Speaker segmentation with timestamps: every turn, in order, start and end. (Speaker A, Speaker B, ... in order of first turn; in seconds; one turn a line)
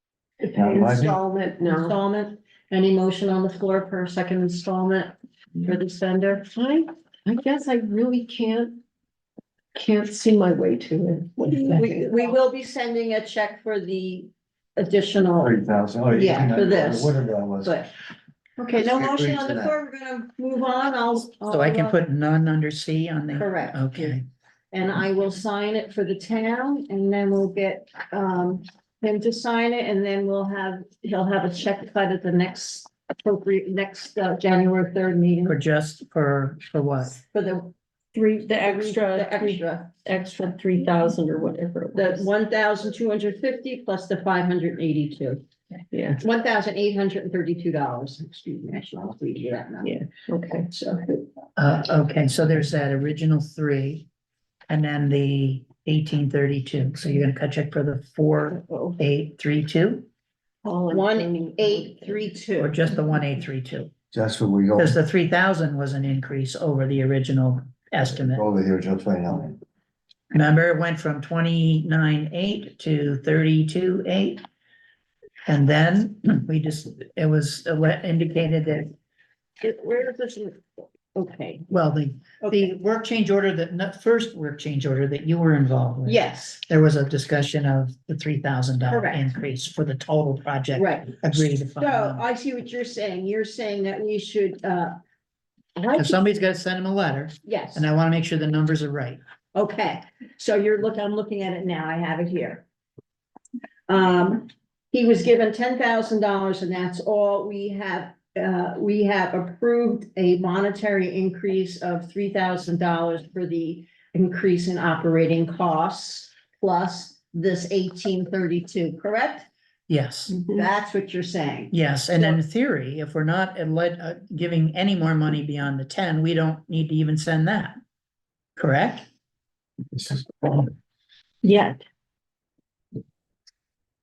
Speaker A: 0.4-2.0
Speaker B: 0.5-1.2
Speaker C: 1.6-5.1
Speaker C: 5.6-6.5
Speaker A: 6.5-8.8
Speaker A: 9.8-12.3
Speaker D: 11.4-11.8
Speaker C: 11.8-15.6
Speaker B: 15.4-17.8
Speaker C: 16.1-17.9
Speaker C: 18.6-22.0
Speaker B: 18.8-19.7
Speaker D: 21.5-24.2
Speaker C: 23.3-24.2
Speaker C: 24.7-35.6
Speaker D: 35.5-37.2
Speaker C: 37.3-37.7
Speaker A: 38.1-42.3
Speaker C: 38.6-39.9
Speaker C: 42.0-45.4
Speaker A: 45.9-46.2
Speaker C: 46.2-50.0
Speaker A: 49.8-50.7
Speaker C: 50.7-51.2
Speaker D: 51.6-54.1
Speaker D: 54.7-60.1
Speaker A: 58.5-59.0
Speaker A: 60.6-62.2
Speaker C: 60.9-62.8
Speaker D: 62.6-63.9
Speaker B: 64.1-65.0
Speaker D: 64.8-68.5
Speaker B: 68.2-69.6
Speaker D: 70.3-74.4
Speaker D: 75.5-78.9
Speaker C: 79.6-81.7
Speaker D: 81.7-92.3
Speaker C: 82.4-82.7
Speaker C: 86.1-86.6
Speaker C: 88.9-89.2
Speaker C: 90.8-91.2
Speaker C: 91.8-94.9
Speaker C: 95.8-96.3
Speaker D: 95.9-99.2
Speaker C: 97.5-97.9
Speaker C: 99.5-102.6
Speaker C: 103.9-119.5
Speaker D: 119.9-120.4
Speaker A: 120.4-120.6
Speaker C: 120.5-122.3
Speaker D: 121.7-127.8
Speaker D: 128.6-129.1
Speaker B: 130.0-130.3
Speaker A: 131.4-131.8